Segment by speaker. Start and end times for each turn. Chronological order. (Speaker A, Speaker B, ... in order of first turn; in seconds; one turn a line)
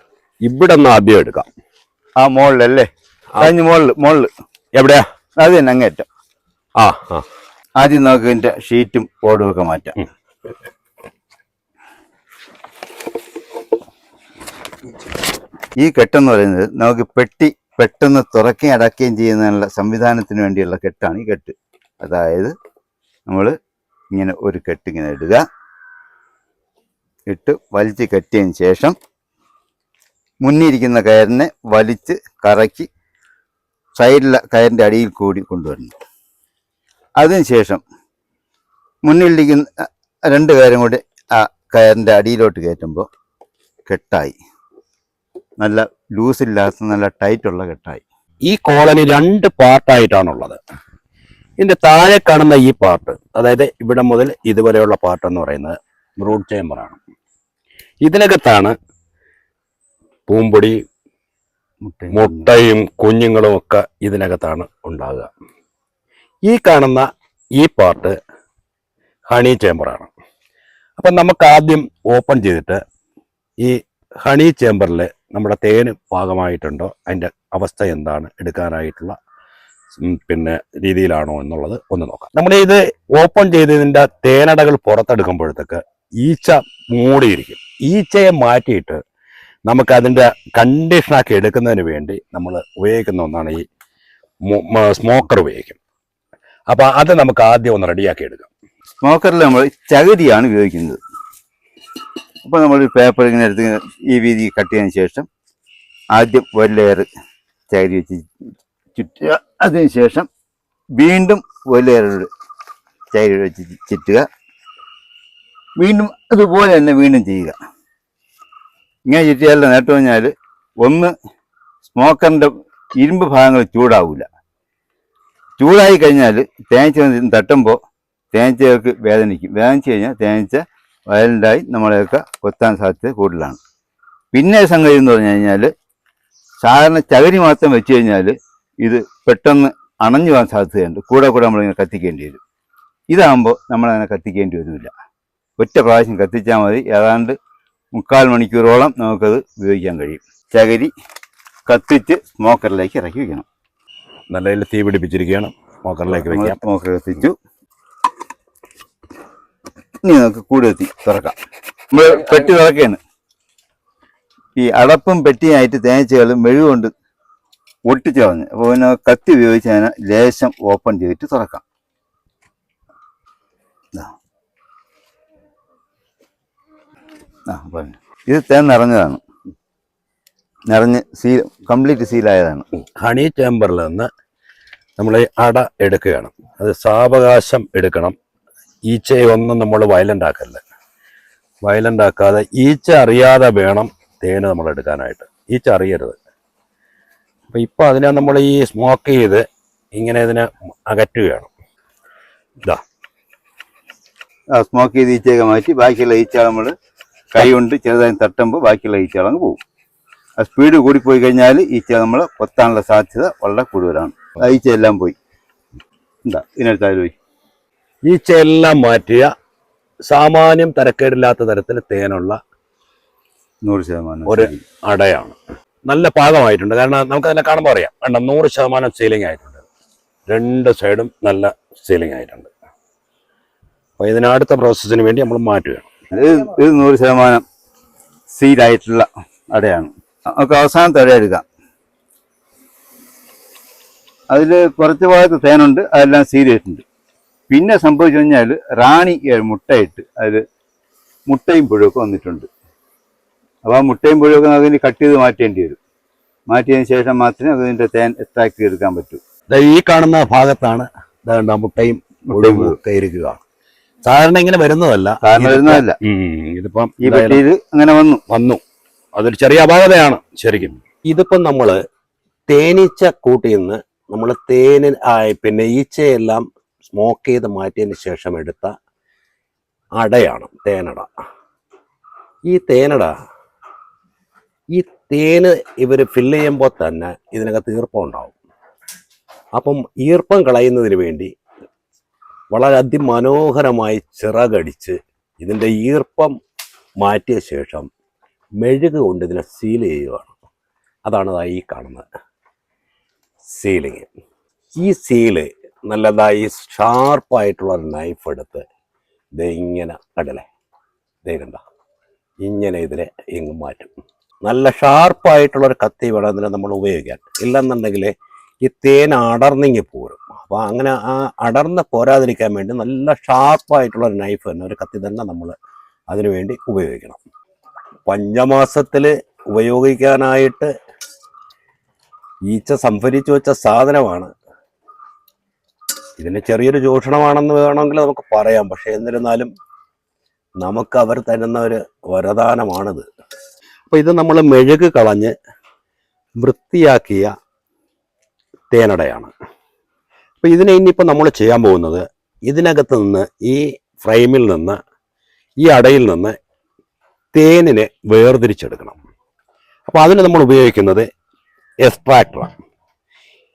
Speaker A: 0.4-1.4
Speaker B: 2.2-4.3
Speaker A: 4.8-5.0
Speaker B: 5.4-6.0
Speaker A: 6.8-7.2
Speaker B: 7.8-10.0
Speaker B: 15.8-22.5
Speaker B: 23.3-23.5
Speaker B: 24.1-25.4
Speaker B: 27.3-28.9
Speaker B: 30.4-32.9
Speaker B: 34.0-35.9
Speaker B: 37.2-37.8
Speaker B: 39.0-39.7
Speaker B: 40.3-43.0
Speaker B: 43.9-44.4
Speaker B: 45.6-48.0
Speaker A: 48.5-50.6
Speaker A: 51.6-57.0
Speaker A: 58.0-58.7
Speaker A: 60.3-60.8
Speaker B: 61.8-62.5
Speaker A: 62.1-65.3
Speaker A: 66.5-67.0
Speaker A: 67.6-68.2
Speaker A: 69.3-70.1
Speaker A: 71.0-72.8
Speaker A: 73.6-79.1
Speaker A: 79.9-89.0
Speaker A: 89.7-93.6
Speaker A: 94.5-95.8
Speaker A: 96.7-98.5
Speaker B: 99.0-101.0
Speaker B: 102.4-105.2
Speaker B: 106.1-107.0
Speaker B: 107.7-108.2
Speaker B: 108.9-110.3
Speaker B: 111.0-112.3
Speaker B: 113.1-114.2
Speaker B: 115.8-117.5
Speaker B: 119.1-120.3
Speaker B: 120.8-121.1
Speaker B: 121.8-124.2
Speaker B: 125.6-127.8
Speaker B: 128.3-133.6
Speaker B: 134.3-135.7
Speaker B: 136.6-142.4
Speaker B: 143.1-144.9
Speaker B: 145.6-147.3
Speaker B: 147.9-150.9
Speaker B: 151.7-153.4
Speaker A: 154.3-156.6
Speaker B: 156.1-157.3
Speaker B: 160.0-161.3
Speaker B: 161.9-163.0
Speaker B: 164.6-166.9
Speaker B: 167.8-171.6
Speaker B: 177.5-179.2
Speaker B: 180.7-182.6
Speaker A: 182.8-184.1
Speaker A: 185.0-188.1
Speaker A: 188.9-190.6
Speaker A: 191.6-196.2
Speaker A: 197.5-199.4
Speaker A: 199.9-201.5
Speaker B: 204.6-206.7
Speaker B: 207.3-209.6
Speaker B: 210.4-215.2
Speaker B: 216.2-217.1
Speaker A: 218.1-219.3
Speaker A: 220.1-222.4
Speaker B: 223.6-224.6
Speaker A: 224.3-225.3
Speaker A: 225.9-229.6
Speaker A: 230.3-232.5
Speaker A: 234.0-235.9
Speaker B: 236.1-237.4
Speaker B: 238.3-241.4
Speaker B: 244.3-246.8
Speaker B: 247.5-250.4
Speaker B: 251.3-252.5
Speaker B: 253.7-255.8
Speaker B: 256.5-259.2
Speaker A: 259.5-263.4
Speaker B: 262.3-262.8
Speaker A: 264.0-267.4
Speaker B: 265.2-266.0
Speaker B: 267.0-268.2
Speaker A: 268.3-268.6
Speaker A: 269.1-271.8
Speaker A: 272.5-278.7
Speaker A: 280.0-281.1
Speaker A: 282.5-283.1
Speaker A: 284.7-288.3
Speaker A: 289.5-291.3
Speaker A: 292.5-296.3
Speaker A: 297.0-297.9
Speaker A: 298.6-300.3
Speaker A: 301.0-302.0
Speaker A: 303.5-304.1
Speaker A: 304.8-308.6
Speaker A: 309.4-310.4
Speaker A: 311.2-311.6
Speaker A: 312.4-313.9
Speaker A: 314.4-318.1
Speaker A: 318.6-325.5
Speaker A: 326.1-327.2
Speaker A: 328.1-330.7
Speaker A: 332.5-334.3
Speaker A: 336.2-339.5
Speaker A: 340.6-343.1
Speaker A: 343.9-345.3
Speaker A: 346.4-347.3
Speaker A: 348.7-349.3
Speaker A: 350.4-354.8
Speaker A: 355.6-356.3
Speaker A: 357.3-359.0
Speaker A: 359.9-361.0
Speaker A: 361.8-362.5